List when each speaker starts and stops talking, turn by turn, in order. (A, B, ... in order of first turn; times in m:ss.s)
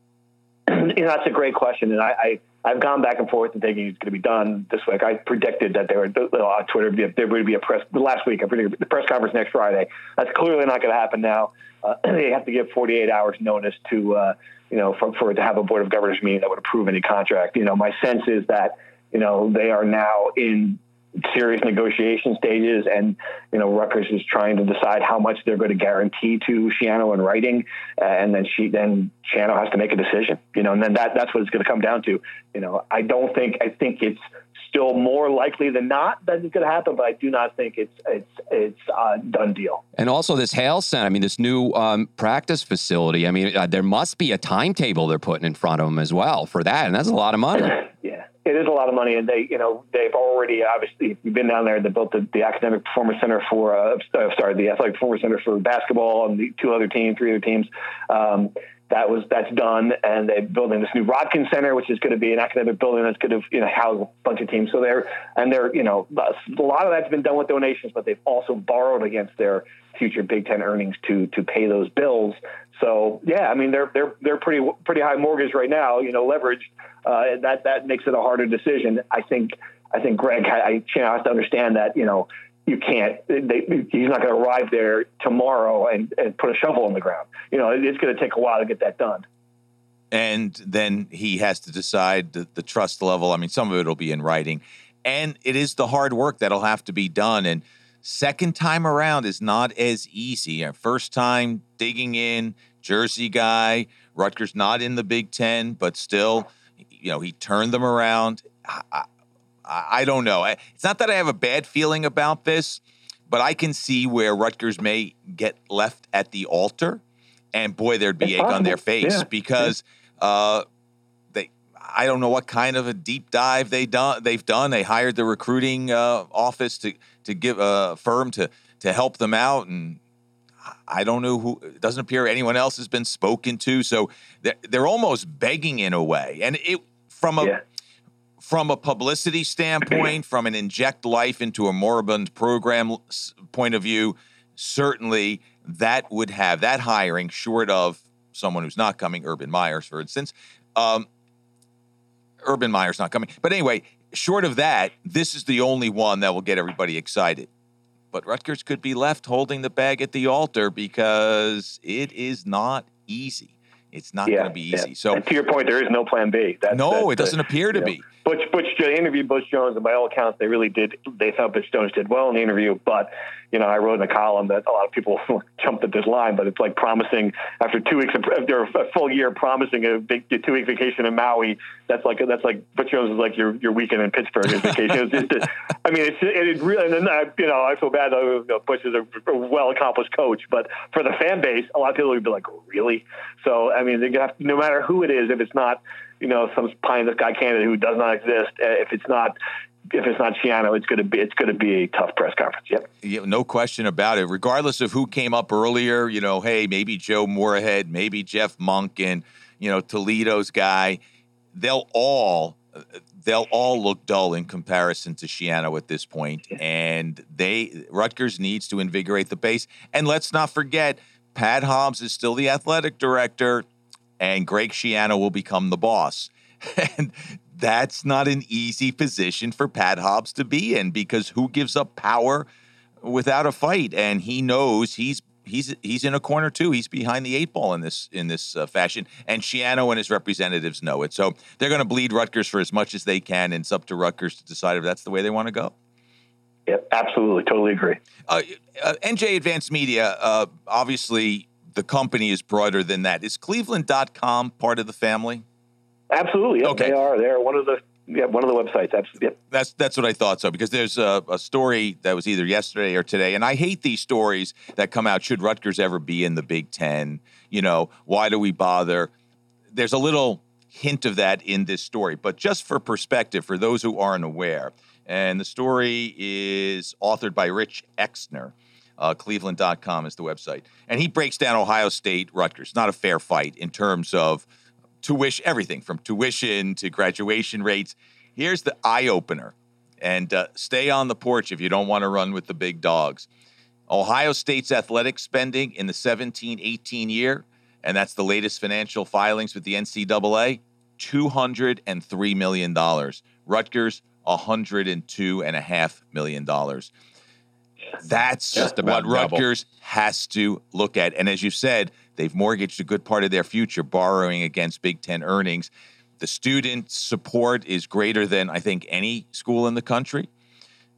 0:00.7-0:39.8 A
0:40.0-0:47.8 B
0:48.0-1:29.3 A
1:30.1-1:49.1 C
1:49.6-1:57.0 C
1:57.5-2:00.6 C
1:58.2-1:59.3 A
2:01.3-2:10.0 C
2:10.7-2:17.6 C
2:18.4-2:31.1 C
2:32.4-2:37.5 C
2:38.1-2:45.2 C
2:44.3-3:19.4 A
2:46.7-2:48.0 C
3:19.9-3:22.9 A
3:23.0-3:31.0 C
3:31.5-3:32.6 C
3:33.2-3:43.7 C
3:44.2-3:52.5 C
3:53.0-4:05.7 C
4:06.7-4:08.0 A
4:08.3-4:15.4 C
4:16.1-4:19.4 A
4:16.6-4:17.0 C
4:19.5-4:29.1 C
4:29.7-4:44.5 C
4:45.0-4:53.3 C
4:53.9-5:06.9 C
5:08.0-5:20.3 C
5:08.5-5:09.4 B